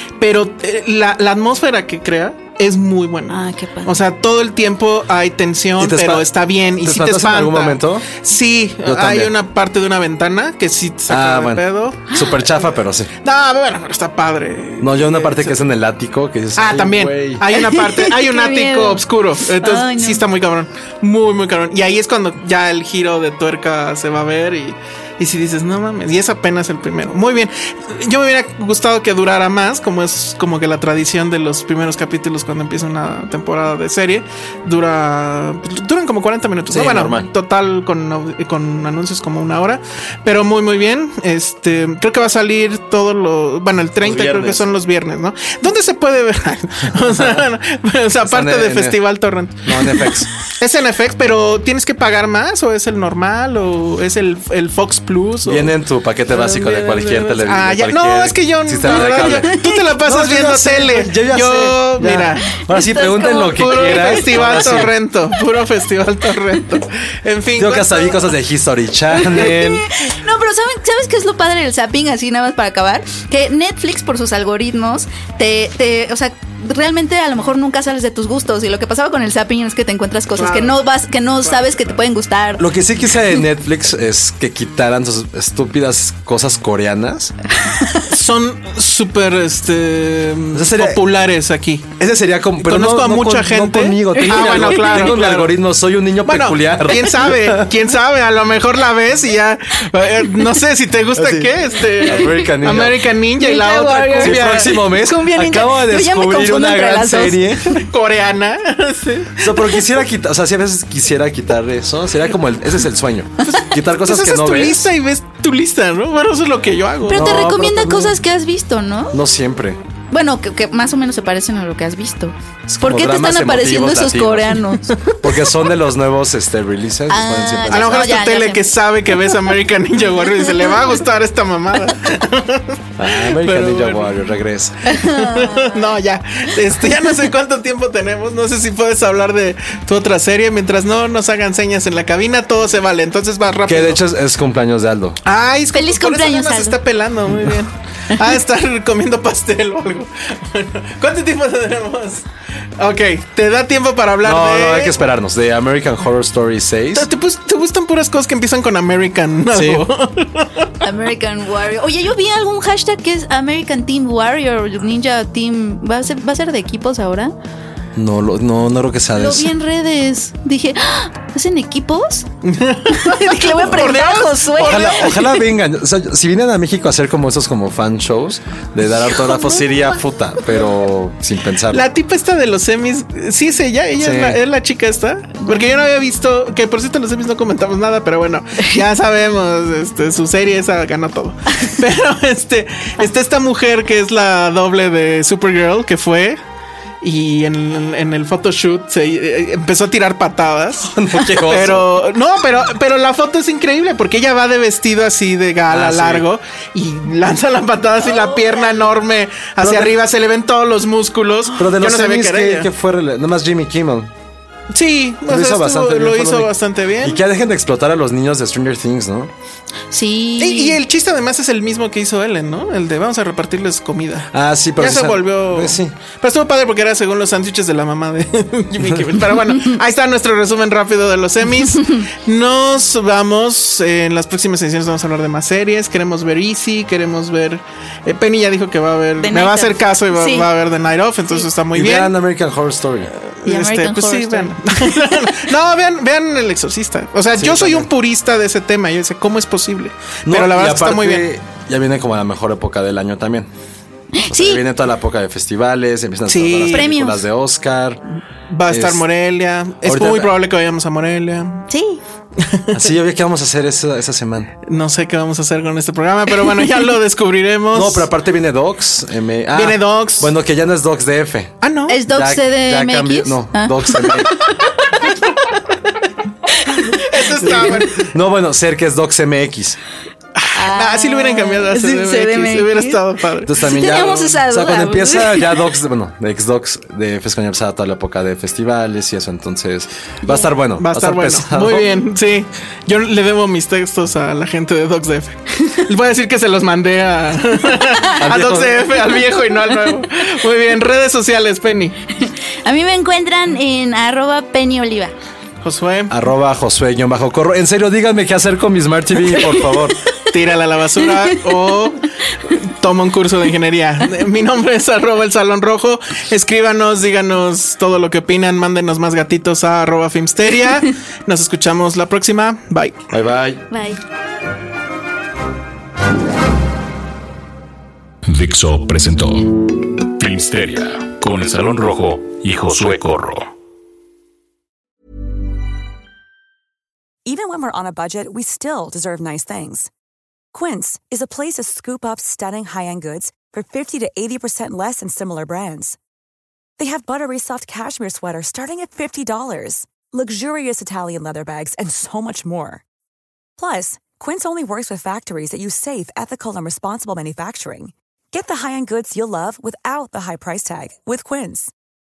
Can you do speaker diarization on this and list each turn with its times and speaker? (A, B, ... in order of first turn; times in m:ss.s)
0:00.2-0:12.2 A
0:03.3-0:04.0 B
0:05.8-0:06.3 C
0:06.8-0:08.1 C
0:08.8-0:09.3 C
0:11.1-0:13.1 C
0:13.2-0:15.6 A
0:14.8-0:17.4 C
0:16.6-0:55.8 A
0:17.5-0:20.2 B
0:36.7-0:37.3 C
0:44.0-0:44.7 C
0:47.0-0:47.4 C
0:48.2-0:49.0 C
0:49.6-0:50.3 C
0:55.4-1:04.9 C
0:56.3-1:02.6 A
1:02.7-1:04.7 B
1:03.4-1:08.3 A
1:07.6-1:09.9 C
1:09.3-1:22.7 B
1:20.3-1:20.8 A
1:21.4-1:22.0 A
1:22.6-1:27.3 C
1:28.1-1:31.9 A
1:30.5-1:31.0 C
1:32.0-1:37.7 C
1:32.6-1:35.6 A
1:36.2-1:44.8 A
1:41.1-1:43.0 C
1:43.4-1:47.5 B
1:44.2-1:47.8 C
1:47.8-1:49.9 A
1:49.4-1:54.9 C
1:53.4-1:57.4 A
1:57.0-1:59.2 B
1:57.1-1:58.2 C
1:59.1-1:59.8 C
2:00.1-2:05.0 B
2:02.7-2:08.1 C
2:07.1-2:08.7 B
2:07.7-2:14.2 A
2:13.0-2:14.8 C
2:14.9-2:24.0 A
2:14.9-2:15.8 B
2:23.7-2:25.2 C
2:25.2-2:32.2 A
2:25.7-2:26.8 B
2:32.8-2:35.0 A
2:34.2-2:37.1 C
2:36.9-2:40.7 A
2:39.5-2:39.9 C
2:40.8-2:47.3 B
2:48.0-2:49.5 C
2:49.2-2:52.3 B
2:52.4-2:55.4 A
2:52.9-2:55.4 B
2:54.7-3:01.8 C
2:59.2-2:59.6 A
3:01.7-3:16.4 A
3:04.0-3:04.4 C
3:17.0-3:32.7 A
3:20.9-3:22.0 C
3:25.7-3:26.3 C
3:29.6-3:30.0 C
3:31.6-3:34.1 C
3:34.7-3:37.2 A
3:35.3-3:39.3 C
3:39.9-3:40.8 B
3:40.4-4:02.1 A
3:44.3-3:46.0 C
3:51.7-3:52.0 B
3:59.2-4:00.5 B
4:01.8-4:03.1 C
4:03.3-4:11.3 A
4:03.4-4:05.5 B
4:07.3-4:07.9 C
4:10.2-4:13.5 C
4:14.2-4:14.6 B
4:14.3-4:18.0 C
4:16.3-4:16.9 A
4:16.7-4:17.2 B
4:18.5-4:21.7 A
4:18.7-4:19.0 C
4:19.9-4:20.4 C
4:21.7-4:22.0 B
4:22.4-4:22.9 A
4:22.7-4:24.5 C
4:24.7-4:28.1 A
4:27.7-4:31.6 C
4:29.5-4:30.3 A
4:31.6-4:32.0 A
4:31.9-4:34.2 B
4:32.1-4:34.4 C
4:36.7-4:37.0 B
4:36.9-4:38.1 A
4:37.4-4:39.8 C
4:40.4-4:44.2 A
4:40.5-4:43.0 B
4:43.4-4:51.9 C
4:43.6-4:45.6 B
4:50.3-5:02.0 A
4:58.2-4:58.9 C
5:02.2-5:05.1 B
5:05.6-5:06.1 A
5:06.1-5:10.0 C
5:09.4-5:09.6 B
5:10.3-5:23.0 A
5:11.0-5:11.4 B
5:23.1-5:23.6 C
5:23.7-5:24.0 B
5:28.3-5:33.5 D
5:37.3-5:39.9 E
5:40.5-5:46.0 E
5:46.8-5:52.8 E
5:53.6-6:01.7 E